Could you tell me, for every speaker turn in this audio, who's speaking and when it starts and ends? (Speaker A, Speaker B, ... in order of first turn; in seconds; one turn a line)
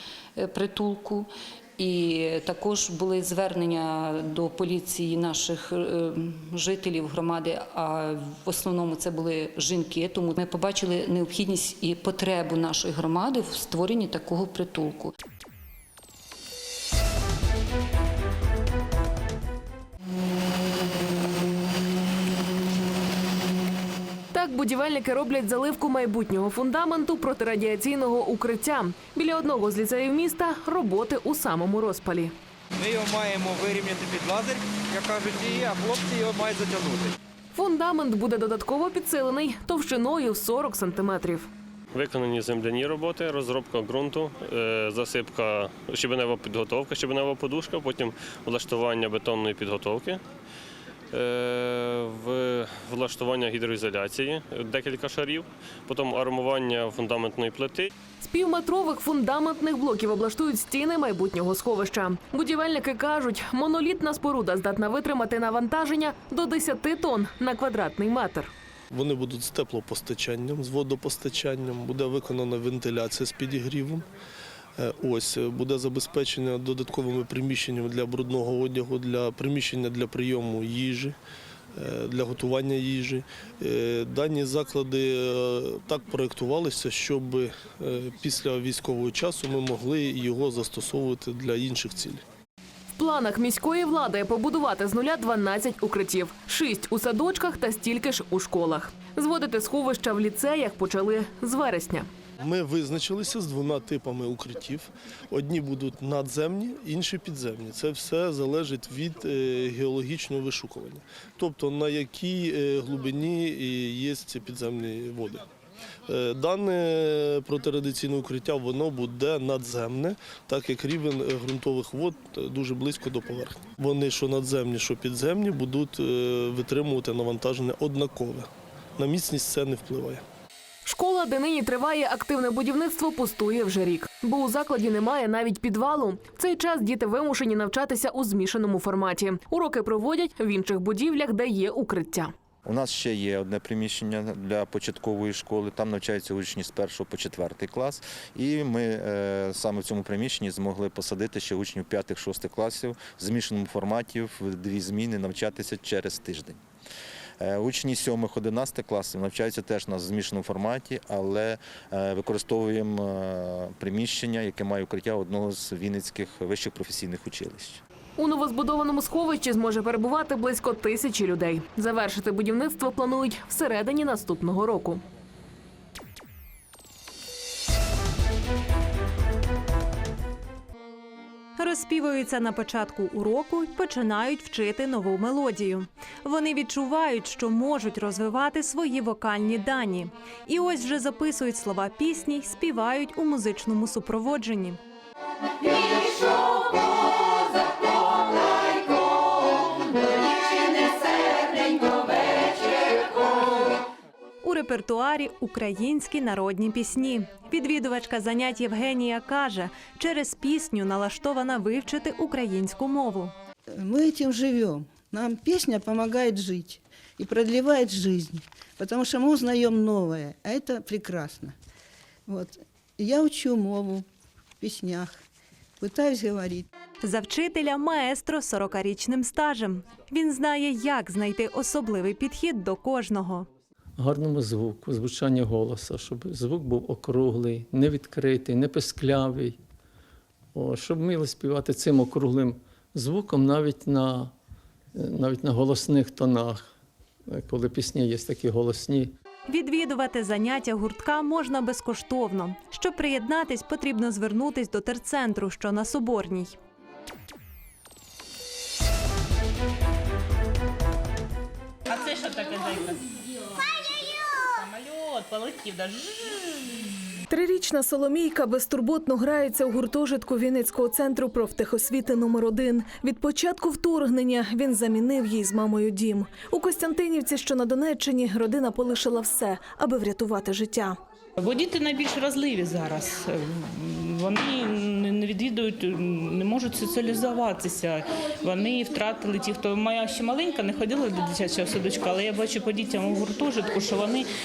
Speaker A: 0.4-1.3
Speaker A: 1.8-15.1
Speaker B: 24.3-32.3
Speaker C: 32.8-37.1
Speaker B: 37.5-41.5
Speaker D: 42.0-50.2
Speaker D: 51.2-57.9
Speaker B: 58.2-68.5
Speaker E: 68.9-74.0
Speaker E: 74.8-81.2
Speaker E: 81.8-92.2
Speaker B: 93.0-102.1
Speaker E: 102.4-115.4
Speaker E: 116.1-130.2
Speaker B: 130.8-142.3
Speaker F: 142.7-156.6
Speaker F: 157.4-167.8
Speaker B: 168.2-175.0
Speaker G: 181.6-194.8
Speaker G: 204.4-213.3
Speaker H: 213.8-221.5
Speaker H: 222.3-224.0
Speaker H: 224.6-225.1
Speaker H: 225.8-226.6
Speaker G: 227.0-233.5
Speaker I: 234.0-239.6
Speaker I: 240.5-244.3
Speaker I: 244.9-246.7
Speaker I: 247.3-249.1
Speaker G: 249.4-256.6
Speaker J: 267.3-280.9
Speaker K: 286.8-287.8
Speaker K: 288.7-293.9